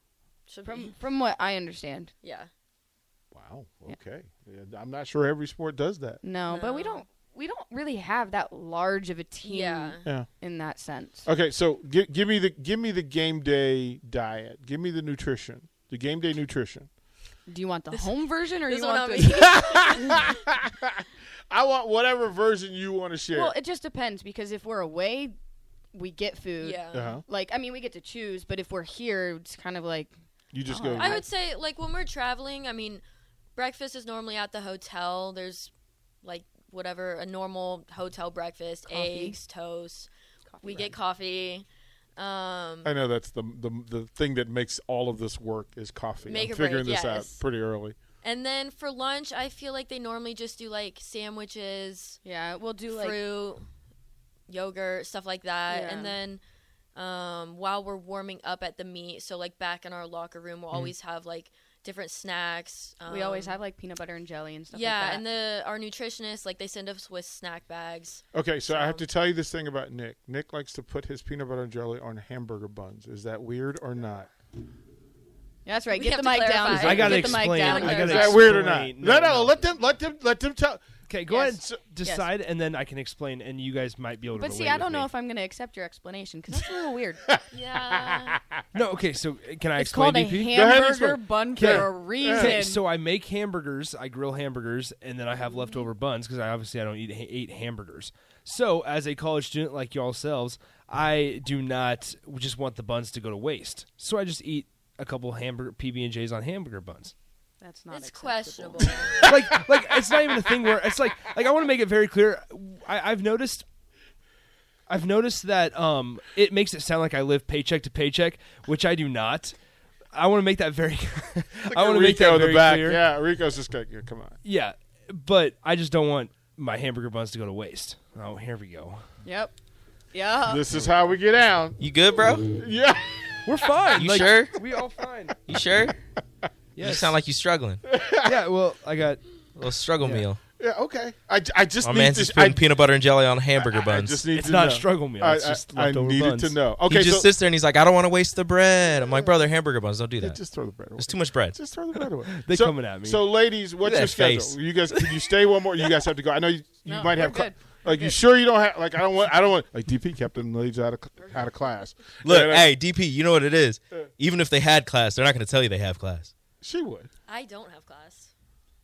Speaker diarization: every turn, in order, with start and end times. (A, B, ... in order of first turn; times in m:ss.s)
0:00.5-0:00.9 A
0:00.6-0:02.1 B
0:02.2-0:02.5 A
0:03.3-0:06.2 C
0:06.2-0:11.3 B
0:06.5-0:07.0 A
0:09.4-0:10.0 A
0:11.2-0:16.9 C
0:17.5-0:20.3 B
0:18.0-0:20.4 A
0:19.3-0:23.5 C
0:23.3-0:25.4 B
0:25.9-0:30.1 B
0:26.6-0:27.2 A
0:26.9-0:27.2 C
0:30.5-0:31.2 C
0:30.6-0:31.3 B
0:31.0-0:33.0 A
0:33.6-0:35.7 A
0:36.2-0:40.1 A
0:38.9-0:39.4 B
0:40.5-0:41.0 B
0:40.6-0:41.6 A
0:42.2-0:42.9 A
0:42.8-0:48.0 C
0:46.3-0:47.4 A
0:48.2-0:52.2 A
0:52.2-0:53.2 B
0:52.9-0:53.6 A
0:54.5-0:56.4 A
0:55.7-0:56.1 B
0:56.9-1:03.6 A
1:03.0-1:05.2 B
1:04.7-1:09.0 A
1:08.3-1:14.3 C
1:15.6-1:18.6 B
1:15.9-1:18.5 A
1:16.7-1:19.6 D
1:17.8-1:21.8 C
1:21.1-1:25.1 D
1:21.3-1:22.3 B
1:24.4-1:27.2 B
1:27.2-1:28.4 C
1:27.5-1:28.4 A
1:28.7-1:30.6 D
1:29.8-1:32.8 B
1:30.5-1:32.6 C
1:31.6-1:47.1 D
1:35.5-1:35.8 B
1:47.6-1:49.2 B
1:47.9-1:49.3 A
1:49.2-1:50.7 C
1:49.2-1:53.6 D
1:54.9-1:59.5 D
2:00.1-2:03.0 D
2:01.7-2:04.4 C
2:04.4-2:09.0 D
2:09.2-2:09.5 B
2:10.1-2:10.6 B
2:10.5-2:11.8 C
2:11.8-2:12.5 E
2:12.4-2:13.9 C
2:13.4-2:15.4 D
2:13.9-2:14.6 E
2:15.5-2:16.0 E
2:16.8-2:17.2 D
2:16.8-2:17.8 E
2:17.8-2:18.4 C
2:18.2-2:19.2 D
2:19.6-2:20.4 E
2:20.0-2:22.6 C
2:21.8-2:24.2 E
2:23.6-2:27.3 C
2:24.3-2:26.6 D
2:26.8-2:30.4 E
2:30.2-2:42.7 C
2:31.0-2:31.6 E
2:32.2-2:33.2 D
2:33.8-2:34.9 E
2:36.8-2:38.2 B
2:42.2-2:46.3 E
2:46.6-2:47.1 C
2:47.3-2:48.3 A